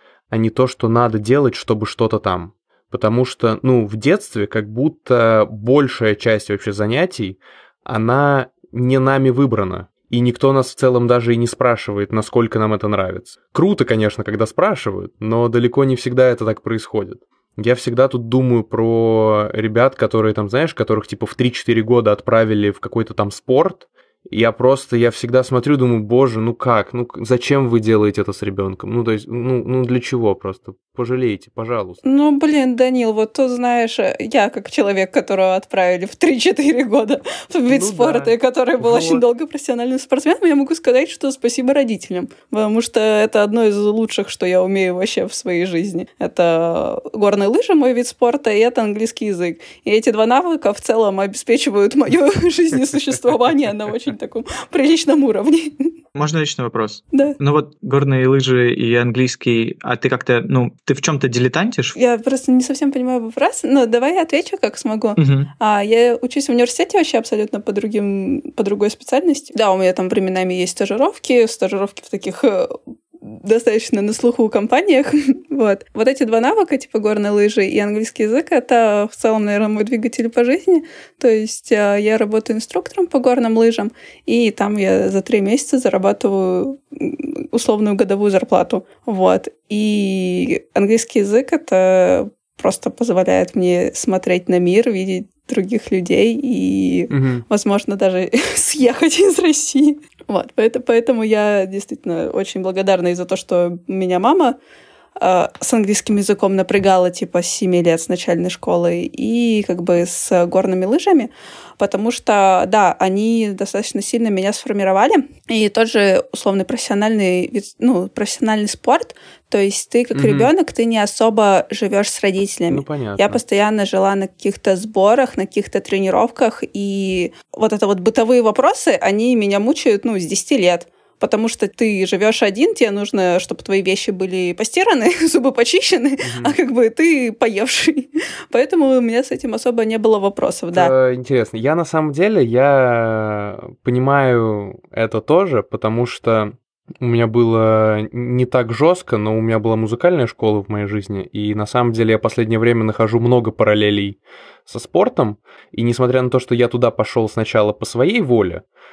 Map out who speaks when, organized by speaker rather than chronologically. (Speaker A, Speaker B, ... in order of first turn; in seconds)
Speaker A: 0.3-32.0, 37.7-39.2, 97.1-97.5, 120.2-120.5, 122.7-123.4, 136.2-136.6, 140.7-158.7
Speaker B: 32.0-55.9, 62.0-104.6, 105.2-140.9
Speaker C: 56.1-62.0, 65.2-65.5